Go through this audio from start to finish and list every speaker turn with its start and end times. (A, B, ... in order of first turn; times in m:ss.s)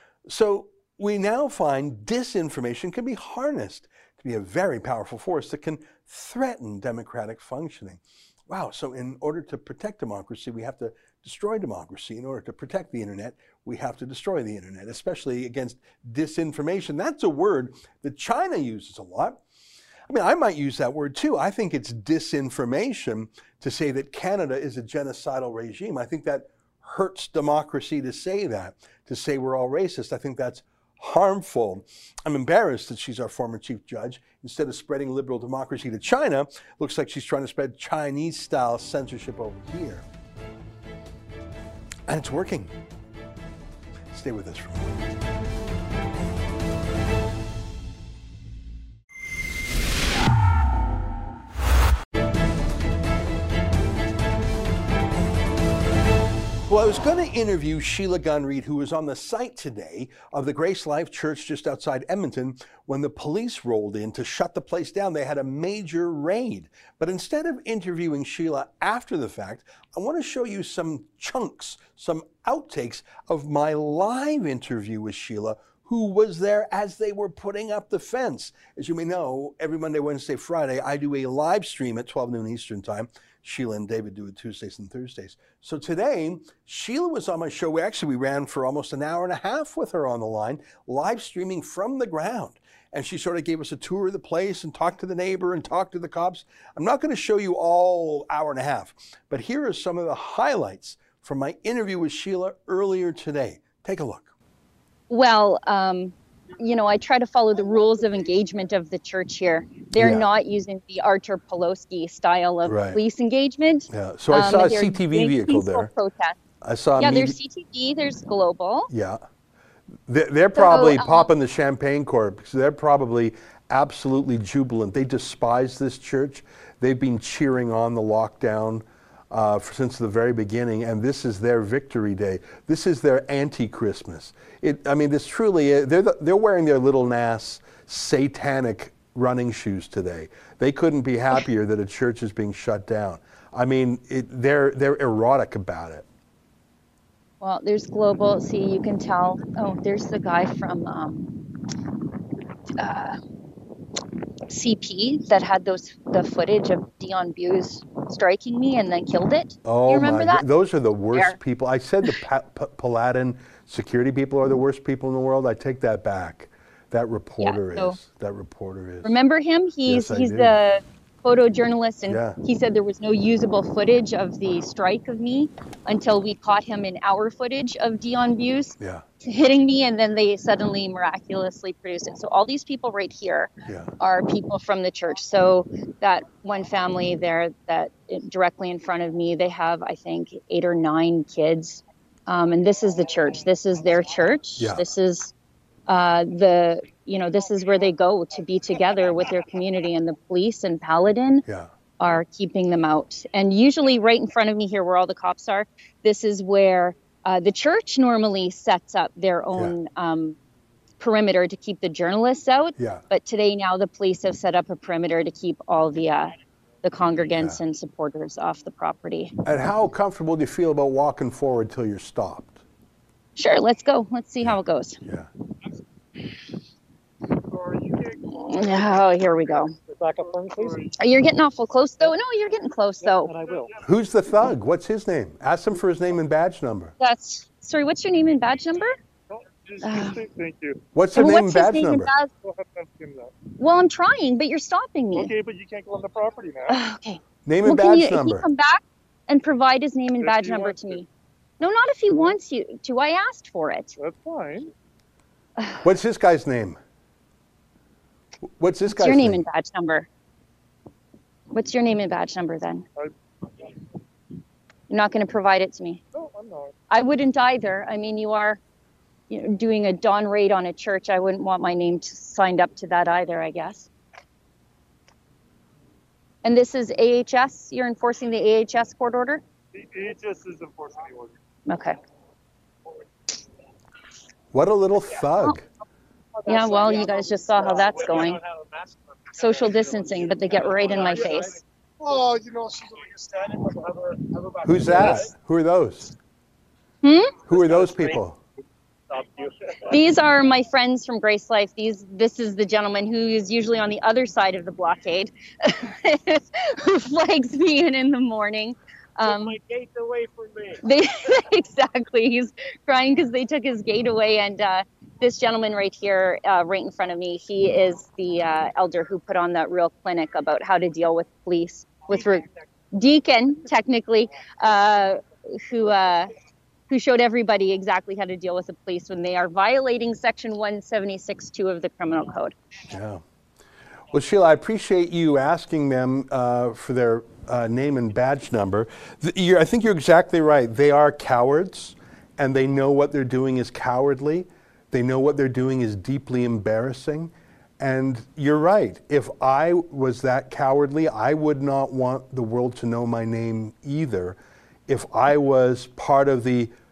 0:00.2-0:19.4 A
0:20.1-0:40.0 A
0:42.1-0:42.7 A
0:44.1-0:45.0 A
0:56.7-1:44.3 A
1:45.1-1:56.4 B
1:50.0-1:50.3 A
1:52.6-1:53.0 A
1:53.9-1:55.9 A
1:56.6-1:57.4 A
1:57.0-1:58.9 B
1:58.9-1:59.2 A
2:00.1-2:26.0 A
2:00.6-2:01.3 B
2:27.4-2:31.4 B
2:32.8-2:33.2 B
2:34.5-2:40.4 B
2:39.6-2:49.1 A
2:47.4-2:48.0 B
2:49.0-3:15.3 B
2:49.9-2:50.6 A
2:52.1-2:52.4 A
2:58.8-2:59.0 A
3:03.6-3:03.9 A
3:14.6-3:14.8 A
3:15.9-3:21.4 B
3:21.4-3:21.7 A
3:22.0-3:30.4 B
3:31.0-3:39.4 B
3:32.8-3:33.0 A
3:39.4-3:42.6 A
3:43.4-3:45.0 B
3:44.4-3:45.3 A
3:47.4-3:51.0 C
3:48.4-3:49.7 B
3:51.0-3:53.3 B
3:53.0-3:53.8 C
3:53.8-3:56.9 A
3:57.0-3:59.0 B
3:59.3-4:00.8 C
3:59.8-4:00.2 B
4:00.9-4:02.1 A
4:01.1-4:02.3 B
4:02.4-4:03.3 C
4:03.6-4:05.3 B
4:05.1-4:06.8 C
4:06.7-4:11.1 B
4:07.4-4:08.4 A
4:10.2-4:11.0 C
4:11.6-4:14.0 B
4:14.0-4:14.7 C
4:15.8-4:16.8 A
4:18.6-4:19.4 A
4:18.9-4:20.1 B
4:21.5-4:22.8 B
4:24.9-4:26.0 B
4:26.1-4:26.7 C
4:26.9-4:28.6 B
4:29.3-4:33.9 B
4:36.4-4:39.4 B
4:39.7-4:41.4 C
4:41.7-4:42.0 B
4:44.5-4:45.6 A
4:46.4-4:55.3 C
4:46.4-4:48.4 B
4:49.3-4:51.6 B
4:54.6-4:56.1 A
4:57.0-4:57.4 B
4:57.5-4:58.4 A
4:57.5-4:58.2 C
4:59.1-4:59.9 C
4:59.9-5:09.6 B
5:09.2-5:10.8 C
5:10.8-5:26.3 B
5:26.9-5:32.5 B
5:32.9-5:33.2 A
5:34.1-5:54.4 A
5:54.9-5:56.7 A